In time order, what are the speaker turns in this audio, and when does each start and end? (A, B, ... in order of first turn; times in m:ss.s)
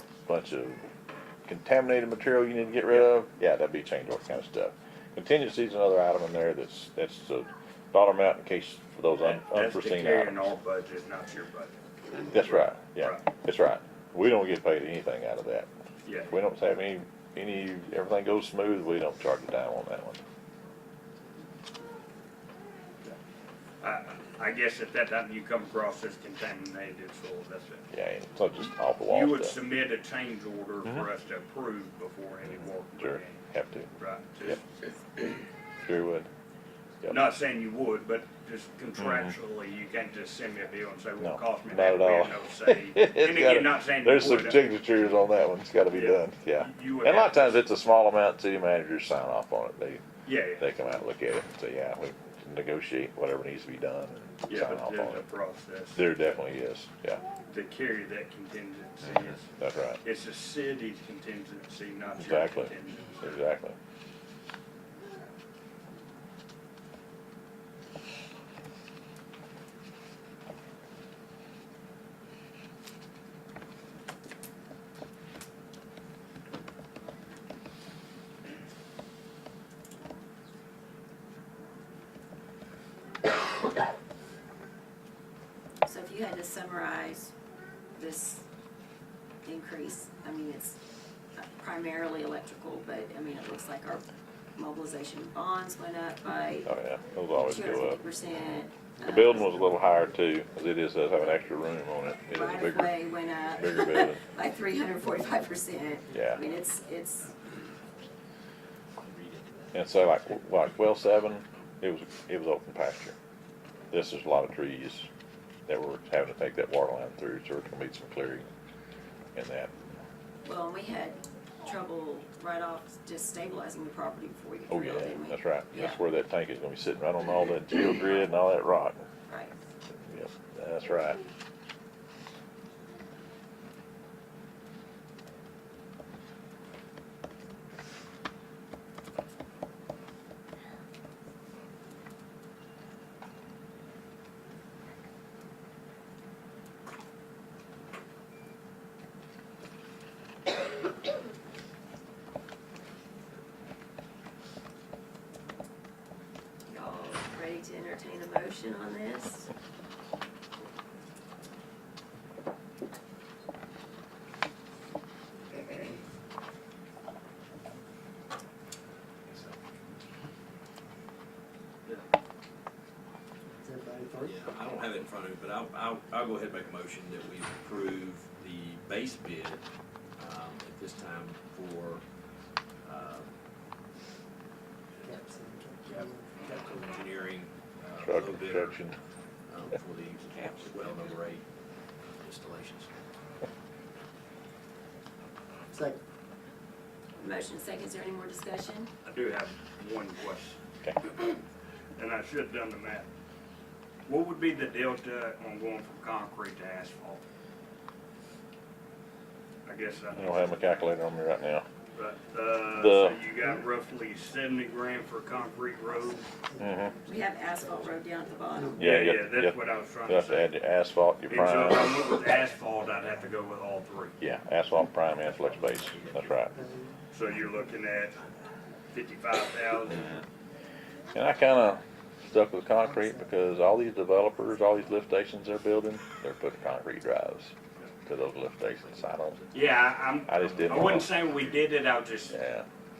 0:00.3-0:00.8 A
0:01.4-0:10.5 A
0:09.2-0:13.2 B
0:12.3-0:15.7 A
0:16.0-0:16.3 B
0:16.3-0:20.2 A
0:23.8-0:27.8 B
0:27.9-0:29.5 A
0:29.0-0:33.4 B
0:32.5-0:33.9 A
0:34.0-0:34.9 B
0:35.8-0:36.3 A
0:37.1-0:44.7 B
0:39.0-0:39.3 A
0:41.2-0:50.0 A
0:45.9-0:47.6 B
0:50.2-0:50.7 B
0:50.6-0:55.2 A
0:54.4-0:56.0 B
0:56.0-0:57.2 A
0:57.5-0:59.5 B
0:59.4-1:00.0 A
1:00.0-1:03.2 B
1:02.2-1:03.8 A
1:25.8-1:27.3 C
1:27.9-1:28.4 C
1:29.4-1:30.8 C
1:31.4-1:36.7 C
1:36.7-1:38.0 A
1:37.3-1:39.5 C
1:39.0-1:44.2 A
1:39.5-1:40.2 D
1:42.3-1:47.4 C
1:45.0-1:45.4 D
1:46.1-1:46.4 A
1:49.0-1:49.8 E
1:49.7-1:53.2 A
1:53.9-1:55.1 A
1:55.7-1:58.5 A
1:59.3-1:59.7 A
2:00.4-2:06.0 C
2:04.7-2:09.0 A
2:09.3-2:09.6 C
2:09.9-2:11.2 A
2:36.7-2:39.5 C
2:45.5-2:46.0 C
2:49.3-2:49.6 E
2:53.5-2:54.4 D
2:54.2-2:59.6 E
3:00.2-3:02.0 E
3:02.8-3:03.3 E
3:05.0-3:06.6 D
3:06.4-3:08.8 E
3:08.0-3:09.0 A
3:09.5-3:11.4 E
3:12.0-3:12.9 E
3:15.7-3:16.0 D
3:17.2-3:18.9 C
3:19.0-3:21.4 B
3:22.0-3:23.1 B
3:24.1-3:27.2 B
3:29.6-3:30.6 B
3:30.1-3:31.7 A
3:31.9-3:36.3 B
3:32.7-3:33.2 A
3:35.4-3:38.9 D
3:36.6-3:36.9 A
3:37.0-3:38.8 C
3:38.8-3:40.5 B
3:38.8-3:41.9 A
3:41.3-3:44.2 B
3:44.2-3:46.5 A
3:45.2-3:46.4 E
3:46.5-3:47.8 D
3:47.1-3:48.2 B
3:48.9-3:50.2 B
3:49.9-3:50.2 A
3:51.1-3:57.5 A
3:52.8-3:53.7 D
3:58.1-3:59.4 A
3:58.6-4:00.1 E
3:59.5-4:02.4 B
4:00.3-4:01.2 A
4:02.3-4:02.7 A